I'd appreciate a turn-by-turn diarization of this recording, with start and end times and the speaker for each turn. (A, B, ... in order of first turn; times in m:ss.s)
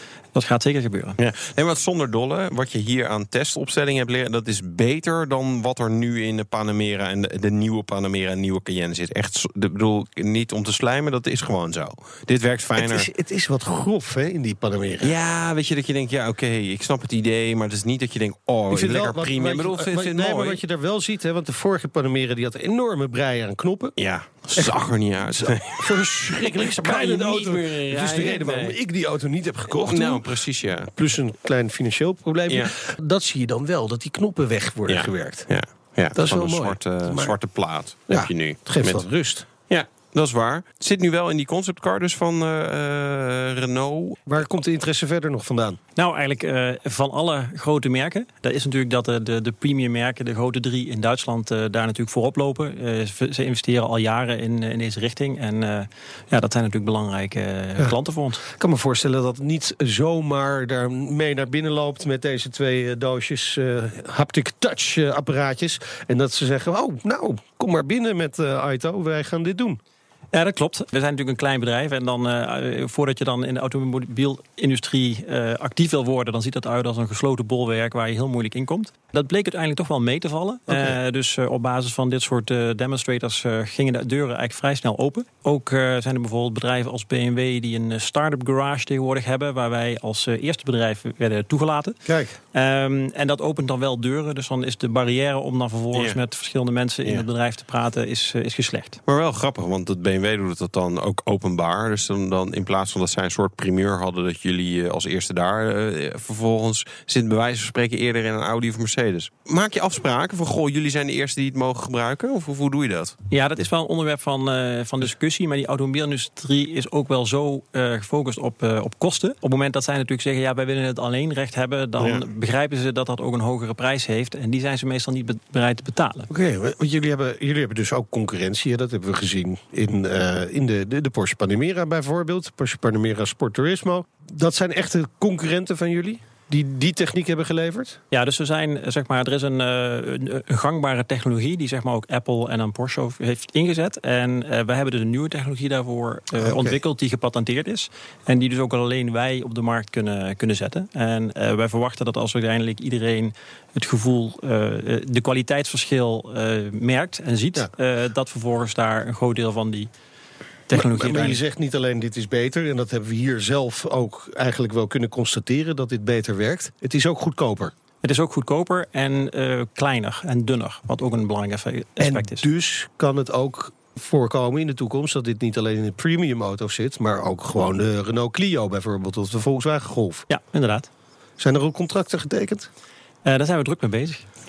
0:00.3-0:01.2 A
0:01.2-0:13.1 B
0:12.8-0:15.1 C
0:15.0-0:20.6 B
0:18.7-0:24.0 C
0:24.0-0:28.8 B
0:25.3-0:30.2 C
0:29.7-0:30.9 B
0:30.9-0:35.5 C
0:34.9-0:39.0 B
0:36.1-0:37.4 C
0:38.1-0:39.4 C
0:39.7-0:44.2 B
0:44.3-0:45.8 C
0:46.0-0:58.4 A
0:58.5-1:09.8 C
1:10.3-1:39.0 A
1:20.7-1:21.0 C
1:32.0-1:32.3 C
1:35.9-1:36.2 B
1:39.0-1:53.1 B
1:53.3-2:06.3 A
2:02.0-2:02.2 B
2:06.3-2:18.0 C
2:18.1-2:39.9 A
2:26.4-2:26.8 C
2:40.7-2:41.4 A
2:40.7-2:47.7 C
2:48.0-2:52.5 A
2:52.0-3:00.3 C
3:00.3-3:00.9 A
3:01.4-3:02.7 C
3:03.2-3:04.2 A